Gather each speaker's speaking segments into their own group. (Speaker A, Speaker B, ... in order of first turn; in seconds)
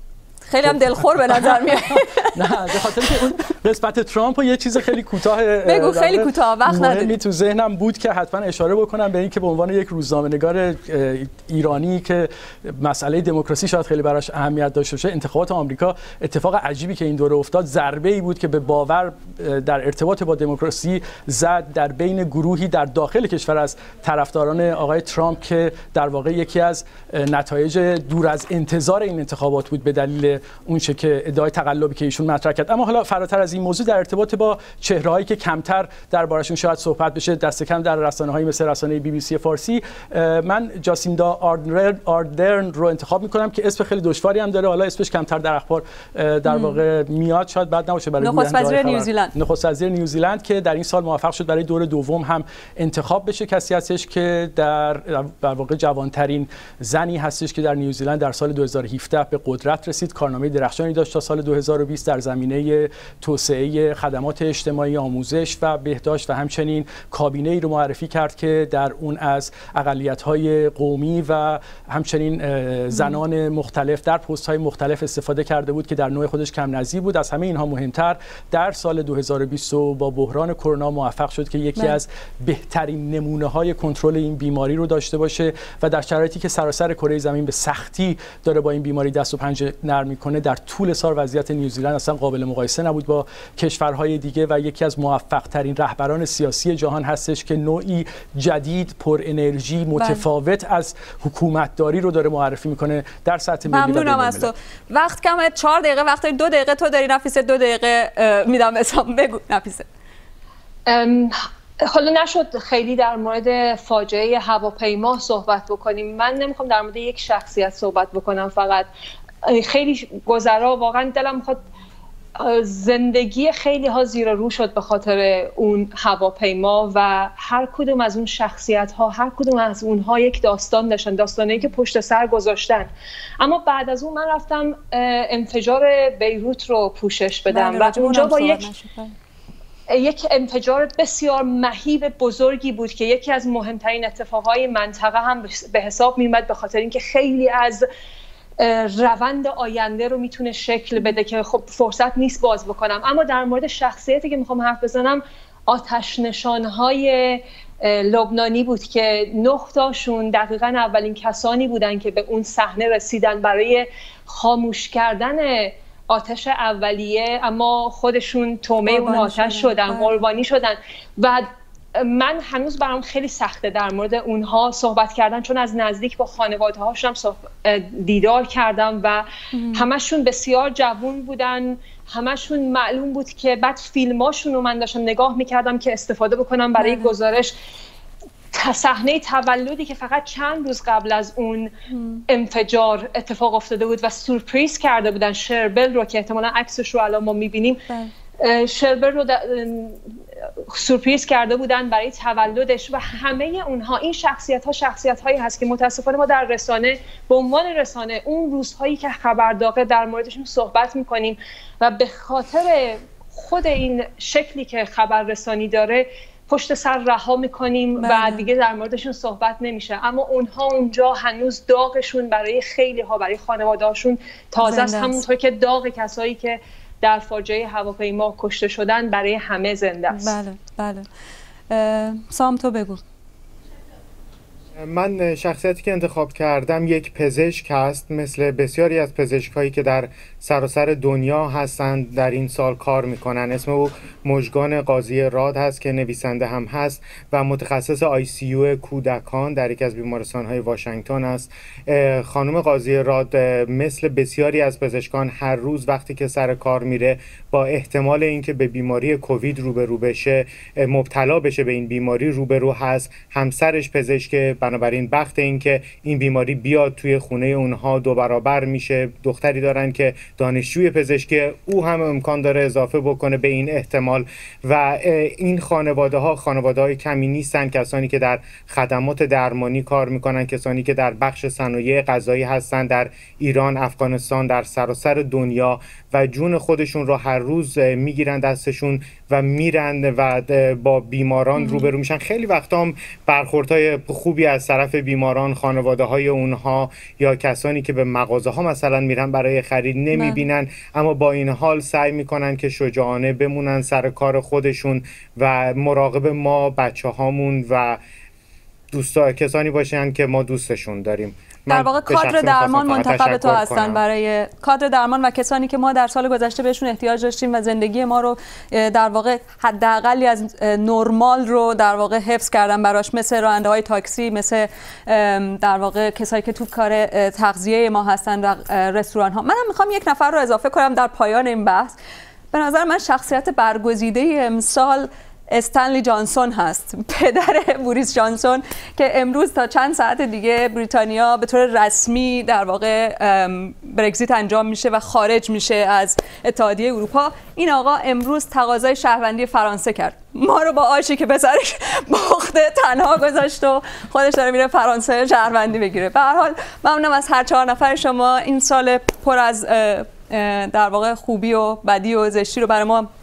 Speaker A: 0.4-3.1, 5.6-7.1, 46.5-46.8, 48.2-49.3, 72.9-73.2, 100.0-100.2, 103.7-109.8, 137.5-139.1, 168.8-170.2, 179.5-179.9, 186.8-187.1, 191.9-192.2, 218.0-218.5, 224.6-225.2, 230.1-231.1, 231.7-233.0, 291.6-291.9, 300.1-300.4, 311.7-331.9, 332.5-363.1
Speaker B: 1.3-1.6, 2.3-104.5
Speaker C: 110.8-118.9, 119.4-121.6, 122.4-138.7, 139.9-147.9, 148.6-187.6, 188.5-191.7, 192.3-197.8, 198.4-200.0, 200.7-230.3
Speaker D: 234.8-308.0, 308.9-314.0